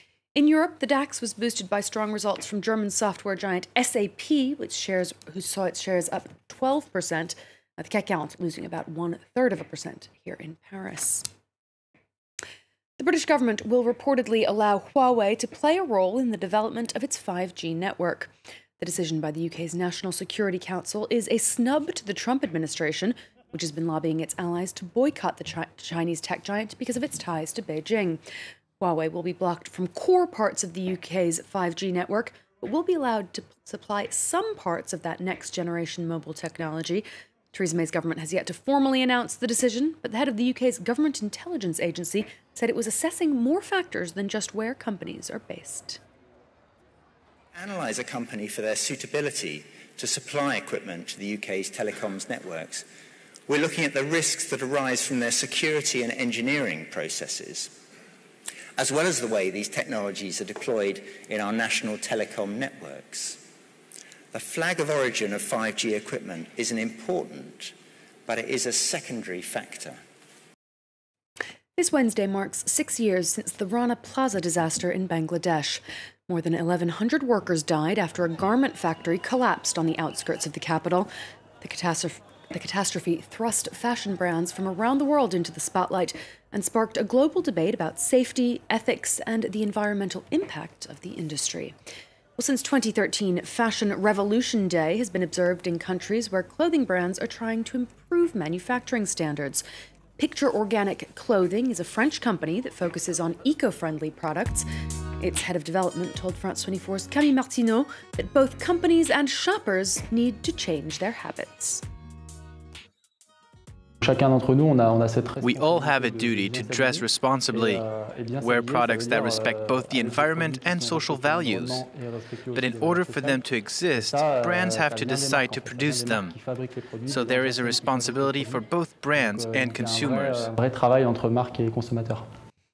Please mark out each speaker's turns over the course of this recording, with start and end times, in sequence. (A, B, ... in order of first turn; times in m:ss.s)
0:00.4-0:11.3 A
0:13.0-0:28.2 A
0:28.8-0:46.0 A
0:47.5-0:52.9 B
0:53.5-0:57.7 B
0:58.8-1:03.4 B
1:04.3-1:07.7 B
1:08.3-1:10.0 B
1:11.8-1:21.1 A
1:21.6-1:31.8 A
1:32.4-1:39.6 A
1:40.2-1:44.7 A
1:45.2-1:51.8 A
1:54.0-2:03.4 C
1:55.4-1:57.8 D
1:58.4-2:01.9 D
2:02.5-2:06.4 D
2:04.0-2:12.2 C
2:07.1-2:10.5 D